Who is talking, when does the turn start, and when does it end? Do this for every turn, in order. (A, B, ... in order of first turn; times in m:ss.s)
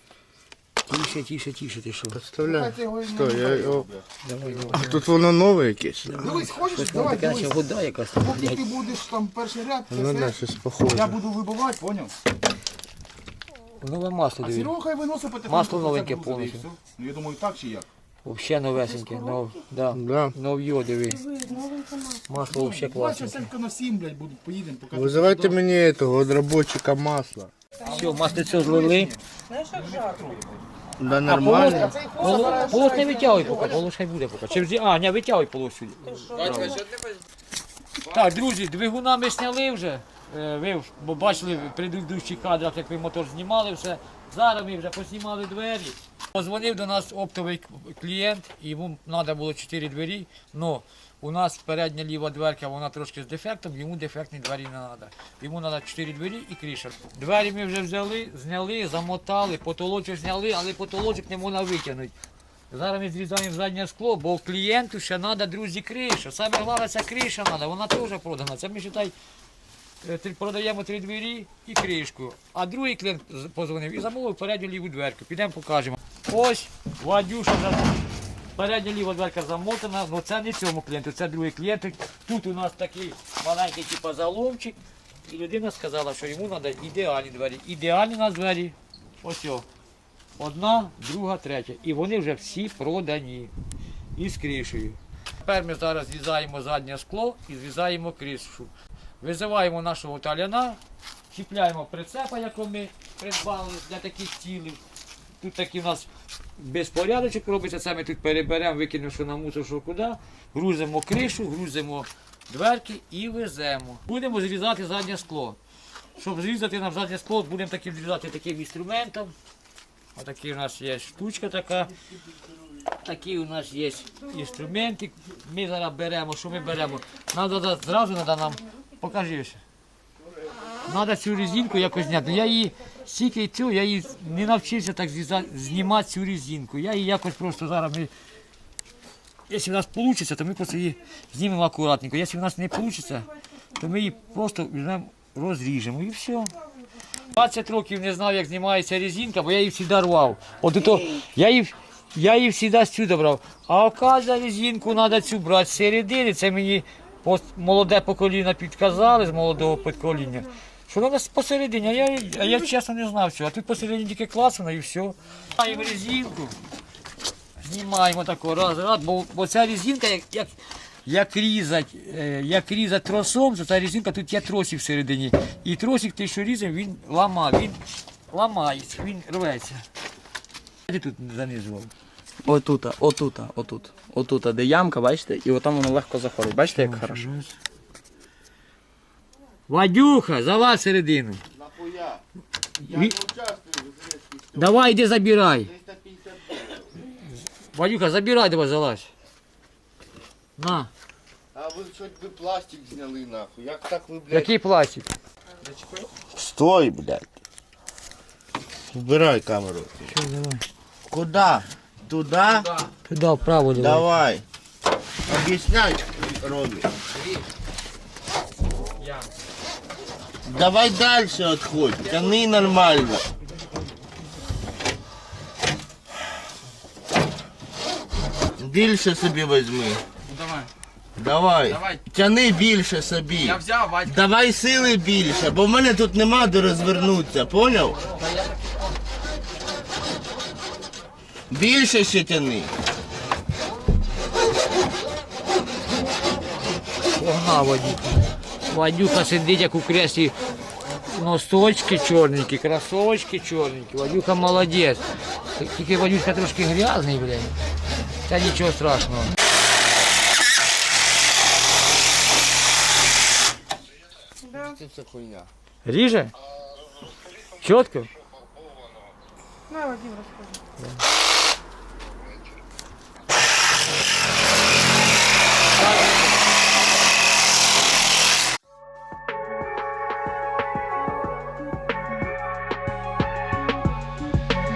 0:00.9-0:02.2 A
0:02.1-0:04.0 B
0:02.4-0:03.9 C
0:04.2-0:05.0 A
0:04.4-0:04.8 C
0:04.7-0:06.2 B
0:06.0-0:08.6 A
0:06.2-0:07.6 C
0:08.2-0:12.1 C
0:09.9-0:11.2 B
0:13.8-0:14.7 A
0:14.4-0:17.9 C
0:15.4-0:16.7 A
0:18.2-0:21.2 A
0:18.8-0:19.3 C
0:19.9-0:20.3 B
0:21.0-0:22.4 D
0:22.3-0:23.5 A
0:22.5-0:25.6 C
0:24.9-0:27.5 B
0:27.8-0:28.2 D
0:27.8-0:30.6 C
0:27.8-0:29.1 A
0:29.5-0:30.3 D
0:31.0-0:32.0 B
0:31.2-0:36.8 A
0:31.3-0:33.9 C
0:31.8-0:33.9 D
0:36.0-0:36.9 D
0:36.4-0:37.1 E
0:38.1-1:02.1 A
1:02.7-1:09.1 A
1:10.0-1:18.0 A
1:18.6-1:29.6 A
1:30.4-1:33.5 A
1:34.1-1:40.8 A
1:41.3-1:44.8 A
1:45.4-1:55.6 A
1:56.2-1:59.3 A
2:00.2-2:01.9 A
2:03.0-2:09.6 A
2:10.8-2:18.1 A
2:19.5-2:26.5 A
2:27.3-2:46.6 A
2:47.6-2:50.5 A
2:51.0-2:57.8 A
2:58.3-2:59.8 A
3:00.9-3:01.9 A
3:02.4-3:07.2 E
3:06.7-3:07.5 A
3:09.7-3:11.4 A
3:11.5-3:12.2 B
3:12.8-3:13.1 A
3:12.8-3:16.9 B
3:14.6-3:15.7 A
3:17.7-3:19.1 A
3:20.6-3:20.9 A
3:21.5-3:24.5 B
3:24.3-3:25.1 A
3:25.6-3:26.1 E
3:26.3-3:27.3 B
3:28.9-3:30.1 B
3:30.1-3:30.6 A
3:31.1-3:32.7 B
3:33.0-3:34.2 A
3:33.7-3:34.4 B
3:35.3-3:36.9 B
3:39.0-3:39.3 E
3:40.4-3:43.2 B
3:48.6-3:50.0 B
3:50.3-3:50.7 E
3:51.2-3:58.0 B
3:51.7-3:52.0 E
3:53.4-3:54.2 E
3:58.2-3:58.7 E
4:01.5-4:02.7 B
4:07.1-4:08.2 A
4:08.7-4:10.3 A
4:11.1-4:15.0 A
4:15.6-4:17.5 A
4:18.2-4:19.3 A
4:24.4-4:24.8 D
4:24.5-4:25.5 B
4:25.8-4:26.3 A
4:27.5-4:28.1 A
4:29.7-4:30.6 D
4:35.8-4:36.3 A